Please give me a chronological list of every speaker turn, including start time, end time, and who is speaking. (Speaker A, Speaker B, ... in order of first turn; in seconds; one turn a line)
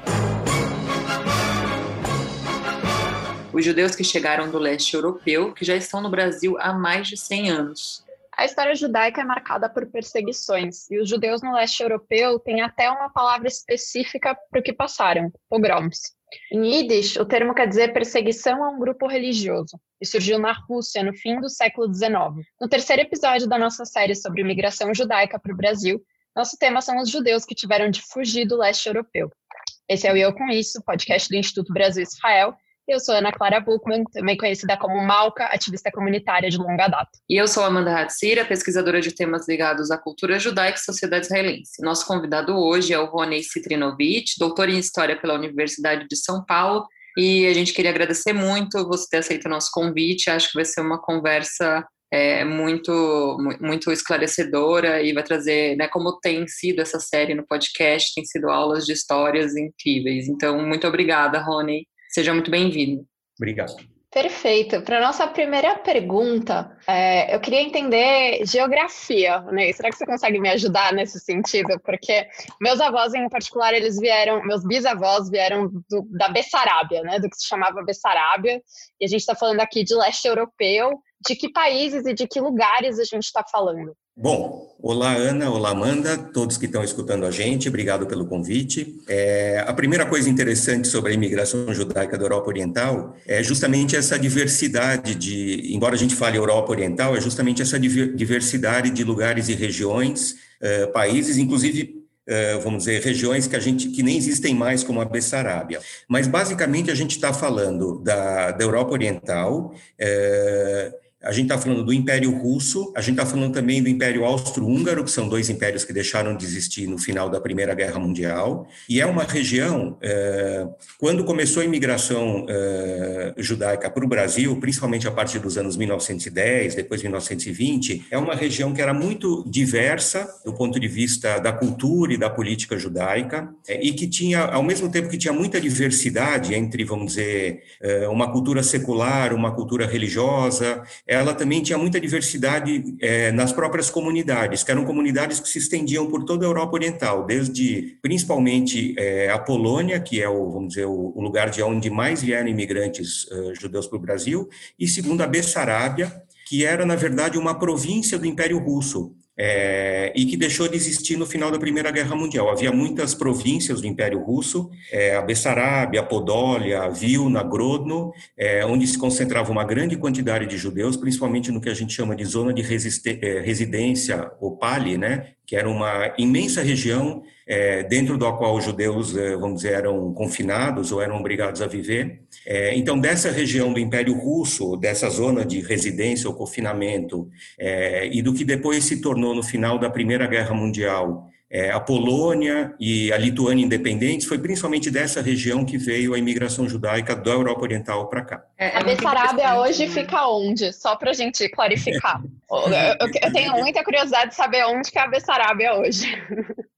Speaker A: 3.5-8.0
Speaker B: 8.3-29.3
Speaker B: 29.9-37.1
Speaker A: 37.3-63.1
Speaker C: 63.4-63.8
Speaker B: 64.1-84.0
Speaker C: 84.2-198.5
Speaker A: 198.6-200.1
Speaker B: 198.7-206.5
Speaker C: 203.0-203.7